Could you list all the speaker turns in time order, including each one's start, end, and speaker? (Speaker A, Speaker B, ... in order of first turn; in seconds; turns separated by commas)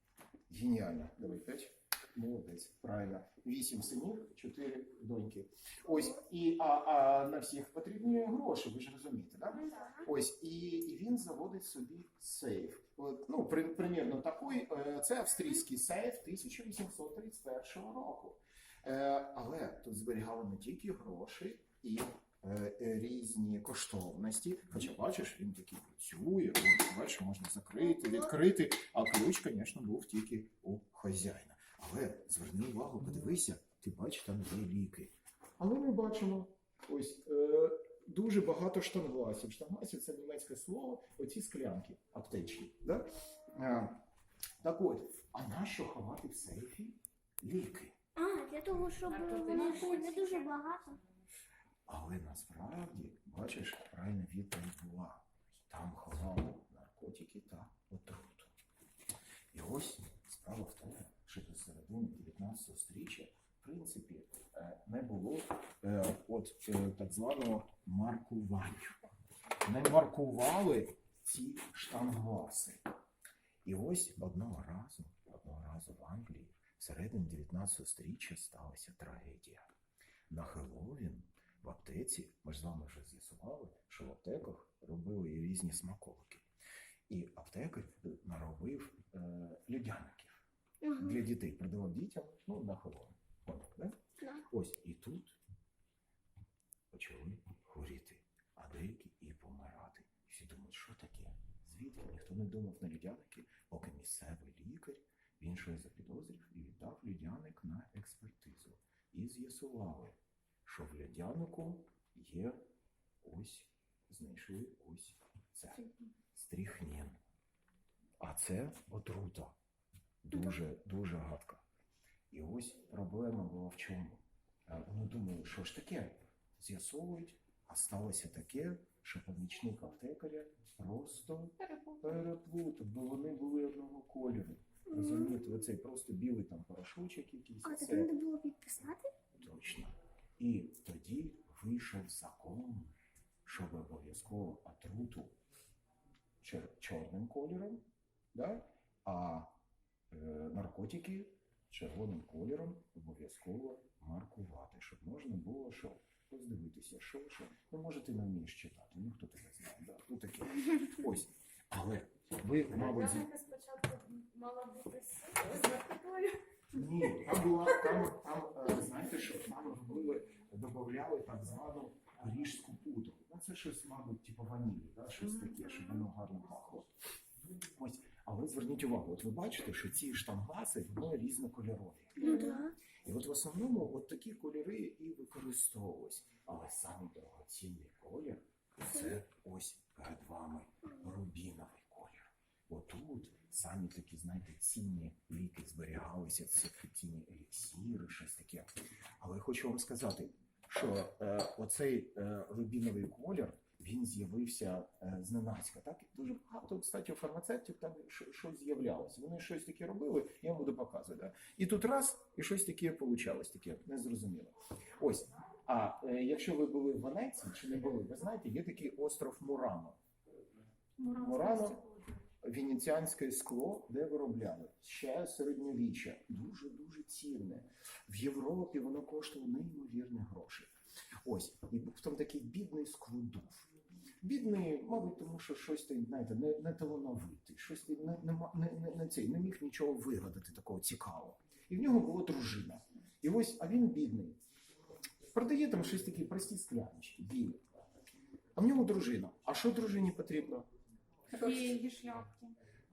Speaker A: 0.5-44.0, Speaker B: 9.5-10.1, Speaker B: 27.8-28.3, Speaker A: 44.6-48.0, Speaker B: 48.1-51.0, Speaker C: 49.1-50.4, Speaker A: 51.9-58.5, Speaker A: 59.5-69.0, Speaker A: 69.6-72.9, Speaker A: 73.6-79.7, Speaker A: 80.3-86.4, Speaker A: 87.1-90.4, Speaker B: 90.8-91.2, Speaker A: 91.0-94.0, Speaker B: 94.2-94.5, Speaker A: 94.5-95.4, Speaker A: 96.9-112.6, Speaker A: 113.2-117.2, Speaker A: 118.2-119.6, Speaker A: 120.2-121.6, Speaker A: 122.3-138.1, Speaker C: 131.6-132.0, Speaker B: 134.9-135.4, Speaker B: 137.6-139.1, Speaker A: 139.4-142.9, Speaker A: 143.4-145.3, Speaker A: 146.4-149.5, Speaker A: 150.1-163.3, Speaker C: 162.7-166.4, Speaker A: 166.7-176.9, Speaker B: 175.4-176.0, Speaker A: 177.7-182.4, Speaker B: 182.2-182.8, Speaker A: 183.0-220.0, Speaker B: 188.9-189.2, Speaker C: 221.0-222.1, Speaker A: 221.1-221.8, Speaker A: 222.4-230.7, Speaker A: 231.2-233.7, Speaker A: 234.2-244.4, Speaker A: 245.3-247.6, Speaker A: 248.6-250.7, Speaker C: 251.3-252.5